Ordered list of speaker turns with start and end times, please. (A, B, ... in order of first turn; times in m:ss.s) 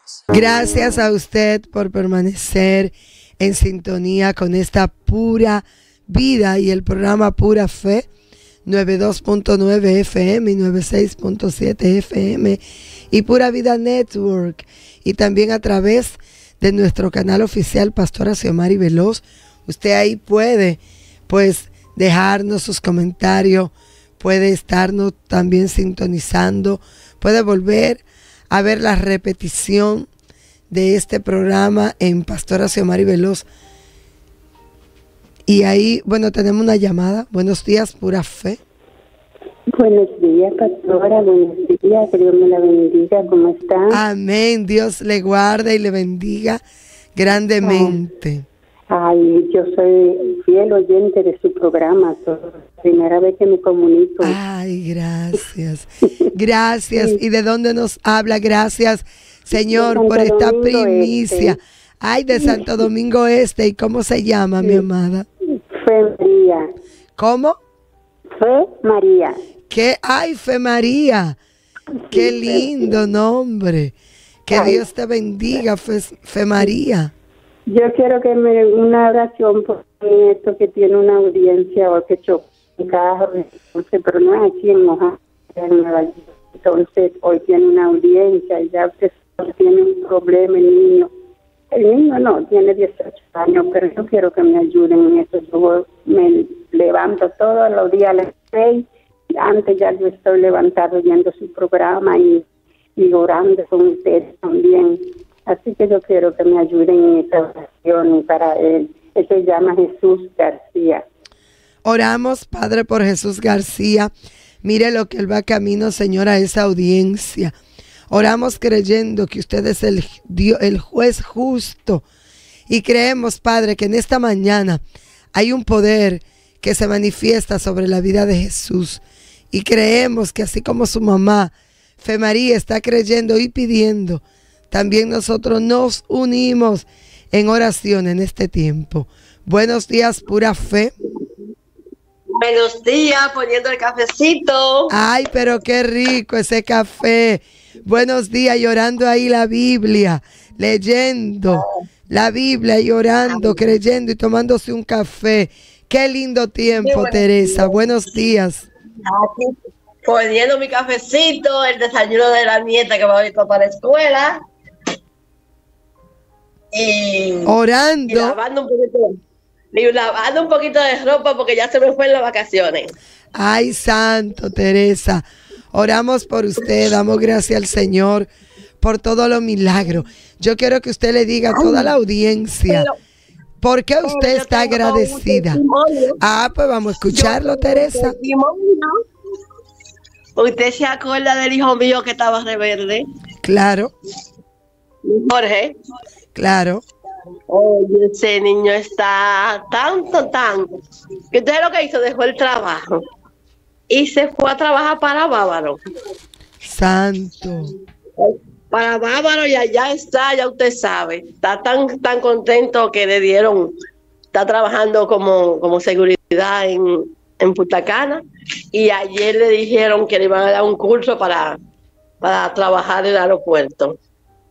0:00.3-0:08.0 A
0:08.6-0:12.6 A
0:13.1-0:30.1 A
0:30.7-0:33.4 A
0:35.5-0:38.6 A
0:39.7-0:44.0 B
0:43.9-0:46.6 A
0:47.2-0:48.4 A
0:47.6-0:48.0 B
0:48.9-0:54.4 B
0:54.2-1:05.2 A
0:59.6-1:01.6 B
1:02.3-1:02.6 B
1:05.7-1:06.6 B
1:07.2-1:07.6 A
1:08.4-1:09.3 B
1:09.7-1:11.4 A
1:12.1-1:13.0 B
1:12.1-1:13.9 A
1:14.5-1:17.1 A
1:14.5-1:14.8 B
1:17.7-1:31.1 B
1:31.7-1:38.8 B
1:39.4-1:42.4 B
1:43.0-1:51.0 B
1:51.8-1:54.1 A
1:54.6-1:57.5 A
1:58.1-2:02.0 A
2:02.7-2:04.8 A
2:05.3-2:20.9 A
2:22.4-2:24.9 C
2:24.9-2:38.6 A
2:36.7-2:37.7 C
2:39.1-2:39.5 C
2:40.0-2:44.4 C
2:46.7-2:47.5 C
2:47.4-2:48.4 A
2:48.1-2:49.1 C
2:49.7-2:52.9 C
2:53.3-2:58.3 A
2:58.8-3:02.9 A
3:01.5-3:01.9 C
3:03.6-3:05.6 A
3:04.0-3:06.2 C
3:06.2-3:08.2 A
3:07.1-3:08.9 C
3:10.4-3:13.0 C
3:13.4-3:13.9 A
3:15.1-3:15.7 C
3:16.4-3:16.8 A
3:17.5-3:20.7 C
3:21.3-3:23.0 C
3:23.9-3:25.8 C
3:26.6-3:27.7 A
3:28.2-3:33.7 C
3:34.3-3:38.2 C
3:38.7-3:41.6 C
3:42.2-3:44.0 C